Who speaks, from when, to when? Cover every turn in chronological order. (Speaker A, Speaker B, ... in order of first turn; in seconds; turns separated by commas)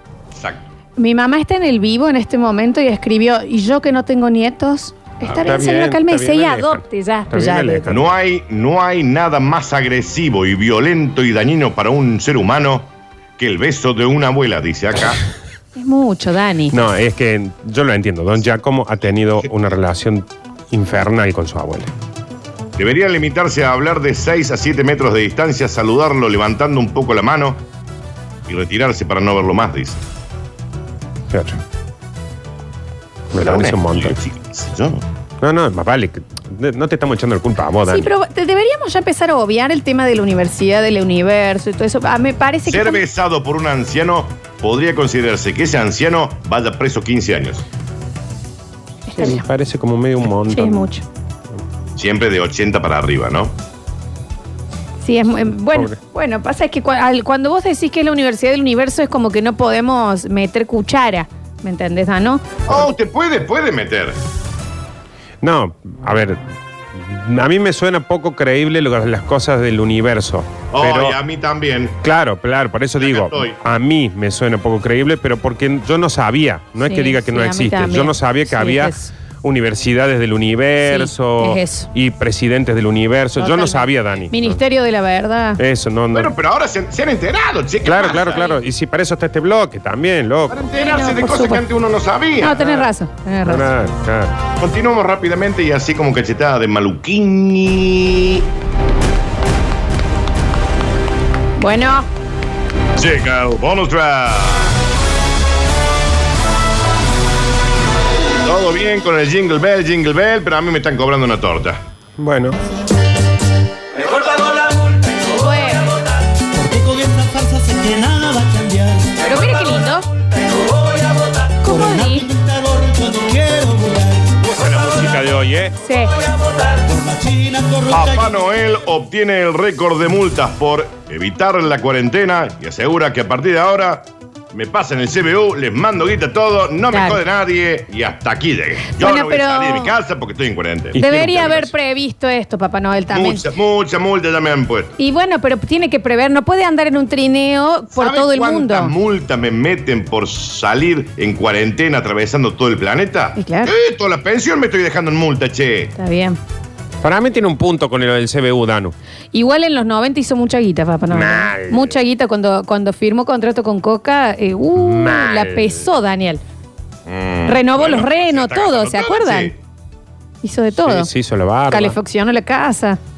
Speaker A: 0.3-0.7, Speaker B: 1.0-8.0, Speaker A: 5.2-5.5, Speaker C: 5.4-8.1, Speaker A: 7.9-15.2, Speaker B: 15.8-16.8, Speaker C: 16.7-21.9, Speaker A: 22.8-27.6, Speaker A: 28.5-30.0, Speaker C: 31.3-31.6, Speaker C: 33.3-34.2, Speaker A: 33.3-35.0, Speaker C: 35.4-38.1, Speaker B: 37.9-43.0, Speaker A: 42.7-47.6, Speaker B: 49.1-49.5, Speaker C: 49.2-50.9, Speaker B: 50.5-51.0, Speaker A: 52.0-53.5, Speaker B: 55.0-62.6, Speaker A: 62.7-64.2, Speaker C: 65.4-66.4, Speaker C: 66.9-71.2, Speaker A: 70.7-72.0, Speaker C: 72.0-84.6, Speaker A: 73.0-73.6, Speaker B: 76.8-79.1, Speaker B: 80.8-81.9, Speaker B: 83.4-85.6, Speaker C: 85.6-86.3, Speaker A: 86.1-88.6, Speaker C: 87.8-90.6, Speaker A: 90.5-92.6, Speaker B: 90.7-91.6, Speaker B: 92.4-93.7, Speaker C: 92.5-92.9, Speaker C: 93.4-94.3, Speaker A: 94.6-98.5, Speaker B: 101.6-102.1, Speaker A: 103.0-104.8, Speaker A: 108.4-111.8, Speaker C: 112.2-112.6, Speaker D: 114.2-114.5, Speaker B: 115.3-115.9, Speaker D: 116.5-119.2, Speaker B: 119.2-120.1, Speaker D: 120.5-124.5, Speaker B: 121.6-122.3, Speaker C: 124.4-125.8, Speaker B: 125.8-126.1, Speaker D: 126.2-128.4, Speaker A: 127.9-141.0, Speaker B: 136.9-137.2, Speaker B: 138.9-139.9, Speaker C: 140.9-141.7, Speaker B: 140.9-143.5, Speaker A: 143.1-145.0, Speaker B: 145.0-148.9, Speaker A: 147.9-155.9, Speaker B: 153.4-153.7, Speaker B: 156.0-156.4, Speaker C: 157.0-158.9, Speaker B: 159.3-166.4, Speaker C: 161.1-161.9, Speaker C: 164.7-165.8, Speaker A: 167.1-169.6, Speaker B: 167.5-169.5, Speaker B: 170.4-171.1, Speaker C: 170.8-171.9, Speaker B: 171.7-173.0